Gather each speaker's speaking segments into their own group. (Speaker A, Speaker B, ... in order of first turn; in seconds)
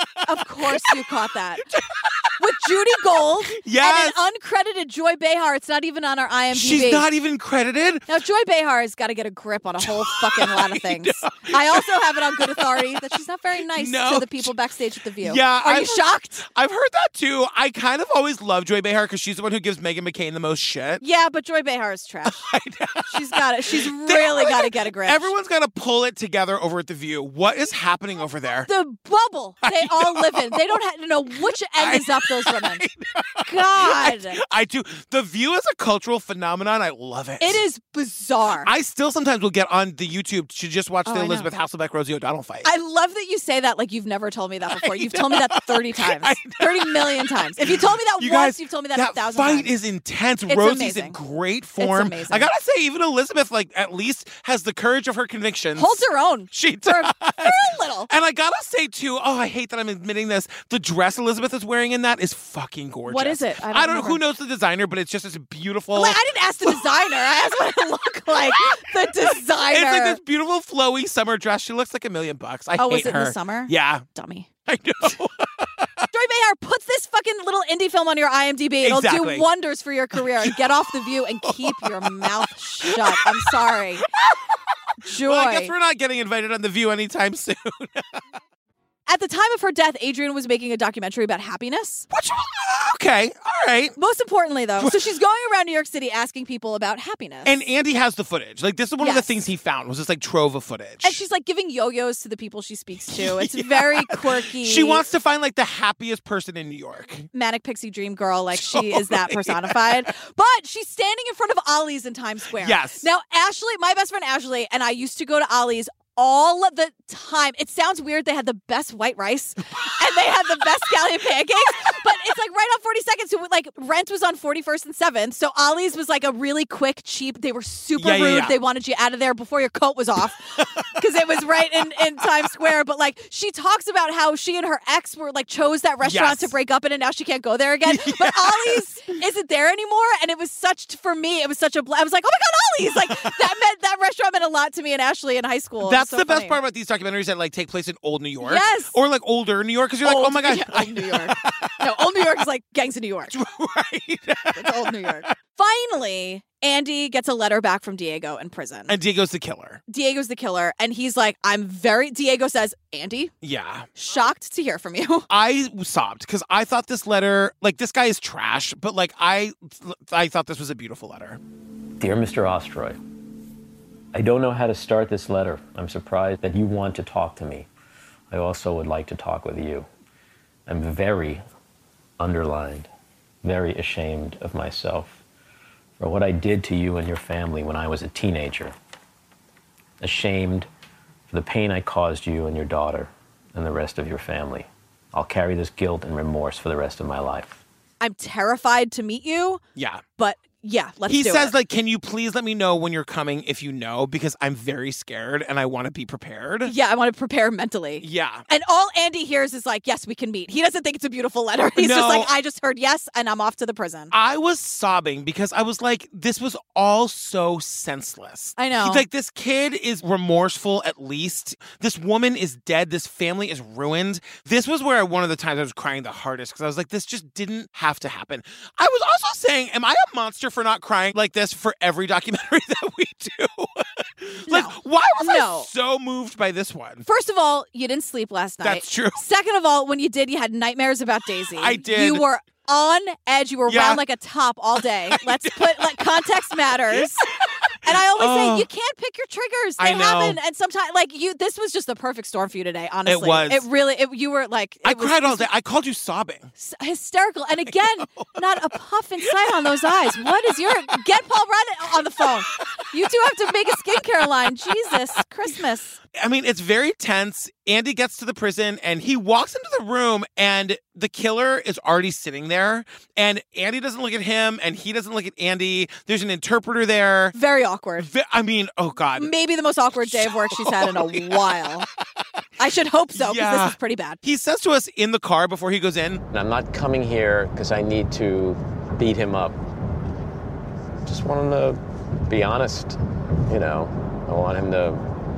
Speaker A: 0.3-1.7, 2.4-7.1, 8.1-16.4, 21.0-22.4, 23.1-25.3, 28.7-32.8, 33.5-34.4, 37.4-38.7, 41.1-41.5, 42.6-49.7, 50.5-51.2, 51.8-52.5, 55.8-58.1, 63.1-64.2, 65.9-70.2, 72.8-74.5, 76.1-84.1, 85.0-85.7, 89.1-92.1, 94.0-97.5, 99.0-99.3, 101.0-105.0, 107.3-146.6, 148.4-148.9, 150.0-153.3, 154.5-158.9, 159.9-163.3, 163.9-165.3, 198.0-199.6, 200.2-201.5, 206.6-214.1, 218.6-219.1, 234.5-235.7, 237.1-247.3, 247.8-255.5, 256.6-266.0, 277.3-278.1, 279.1-281.9, 282.6-284.2
Speaker B: 0.6-0.9, 1.7-2.3, 3.5-4.2, 6.5-8.1, 9.8-12.9, 13.8-14.5, 15.2-21.0, 22.3-28.7, 29.6-30.8, 31.5-37.6, 38.6-42.7, 44.7-66.8, 68.4-74.0, 74.7-76.0, 78.8-79.5, 80.2-80.6, 81.4-82.3, 82.9-83.5, 85.2-88.1, 92.1-94.0, 97.5-101.2, 103.1-107.3, 108.6-110.0, 112.6-113.1, 128.0-128.5, 130.6-130.8, 136.0-136.5, 137.9-138.8, 145.8-151.8, 153.3-155.2, 158.9-159.8, 163.4-163.9, 165.3-171.4, 199.8-200.0, 201.1-206.7, 208.0-208.4, 211.8-212.3, 214.1-237.1, 238.6-239.2, 241.6-242.2, 243.7-244.0, 245.1-246.0, 246.9-248.7, 249.8-250.4, 253.1-253.6, 254.8-256.5, 258.1-258.4, 259.2-260.2, 262.2-262.9, 264.7-264.9, 266.1-277.4, 278.0-279.3, 280.0-281.6, 283.1-286.2
Speaker C: 172.0-172.9, 174.1-177.7, 178.3-179.8, 180.7-181.4, 182.2-182.8, 183.4-185.2, 186.0-186.5, 190.0-190.6, 191.5-192.2, 193.6-194.3, 286.3-289.6, 291.1-293.0, 293.5-295.0